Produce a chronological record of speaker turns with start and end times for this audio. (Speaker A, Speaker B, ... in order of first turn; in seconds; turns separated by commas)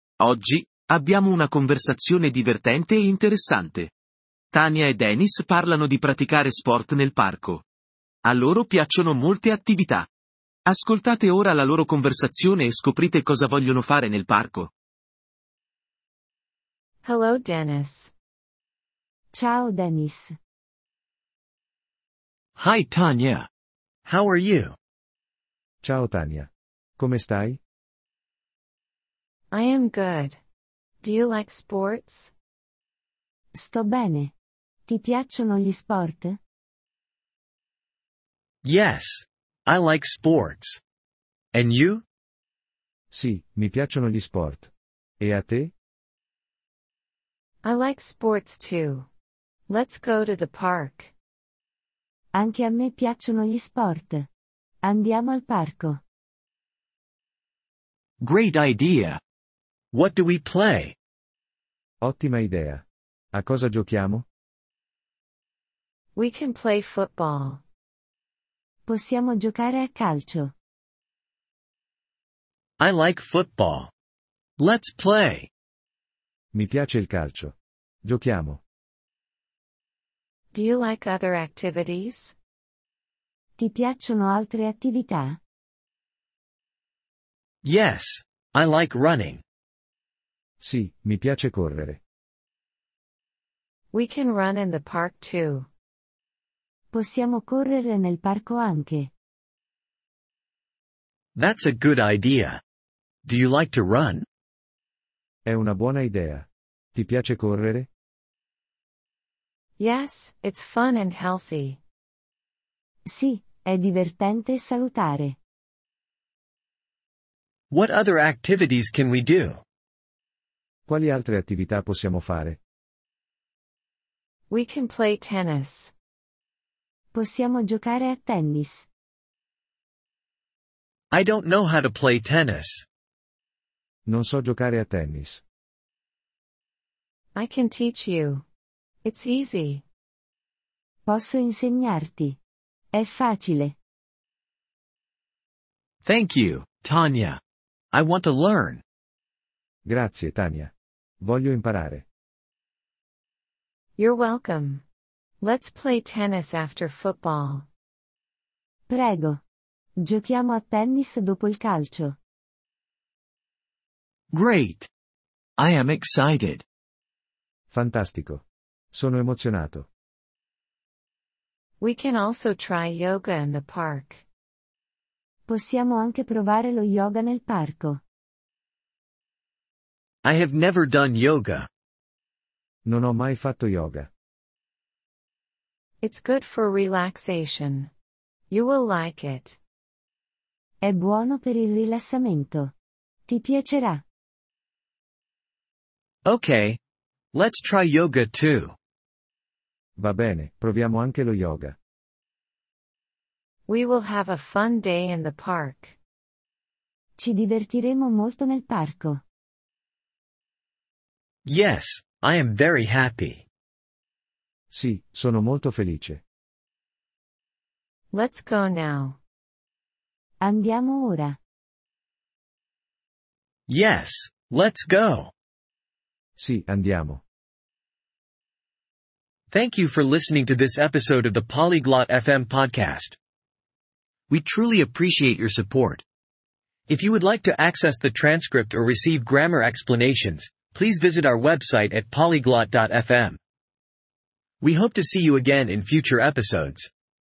Speaker A: 0.2-3.9, Speaker A: 4.5-7.6, Speaker A: 8.2-10.1, Speaker A: 10.7-14.7, Speaker B: 17.0-18.1, Speaker C: 19.3-20.4, Speaker D: 22.6-23.5, Speaker D: 24.1-24.8, Speaker E: 25.8-27.6, Speaker B: 29.5-30.4, Speaker B: 31.0-32.3, Speaker C: 33.6-34.3, Speaker C: 34.9-36.4, Speaker D: 38.6-40.8, Speaker D: 41.5-42.0, Speaker E: 43.1-44.7, Speaker E: 45.2-45.7, Speaker B: 47.6-49.1, Speaker B: 49.7-51.1, Speaker C: 52.4-54.3, Speaker C: 54.8-56.0, Speaker D: 58.2-59.2, Speaker D: 59.9-61.0, Speaker E: 62.0-64.3, Speaker B: 66.2-67.6, Speaker C: 68.9-70.5, Speaker D: 72.8-73.9, Speaker D: 74.6-75.5, Speaker E: 76.5-78.6, Speaker B: 80.5-82.4, Speaker C: 83.6-85.4, Speaker D: 87.6-89.4, Speaker E: 90.6-92.0, Speaker B: 93.9-95.7, Speaker C: 96.9-99.1, Speaker D: 101.3-102.6, Speaker D: 103.2-104.3, Speaker E: 105.5-107.9, Speaker B: 109.8-111.8, Speaker C: 113.1-115.4, Speaker D: 117.7-119.6, Speaker E: 120.9-122.6, Speaker B: 124.5-125.9, Speaker C: 127.1-128.9, Speaker D: 131.1-132.8, Speaker E: 134.1-135.4, Speaker B: 137.3-138.5, Speaker B: 139.0-139.8, Speaker C: 141.1-142.4, Speaker C: 142.9-143.8, Speaker D: 146.0-147.4, Speaker D: 147.9-148.8, Speaker E: 149.9-152.1, Speaker B: 154.0-154.8, Speaker B: 155.4-157.7, Speaker C: 158.9-159.4, Speaker C: 160.0-162.2, Speaker D: 164.3-164.9, Speaker D: 165.6-166.6, Speaker E: 167.7-169.9, Speaker B: 171.8-174.2, Speaker C: 175.5-178.0, Speaker D: 180.2-181.7, Speaker E: 182.9-184.1, Speaker B: 186.0-187.9, Speaker B: 188.5-189.6, Speaker C: 190.8-192.7, Speaker C: 193.3-194.0, Speaker D: 196.2-196.8, Speaker D: 197.3-198.8, Speaker E: 200.0-201.8, Speaker B: 203.7-206.0, Speaker C: 207.2-209.2, Speaker D: 211.4-213.4, Speaker E: 214.7-216.2, Speaker B: 218.1-219.2, Speaker C: 220.4-221.4, Speaker D: 223.7-225.3, Speaker E: 226.4-227.2, Speaker D: 229.5-233.2, Speaker D: 234.3-236.0, Speaker D: 236.9-243.4, Speaker D: 244.6-246.9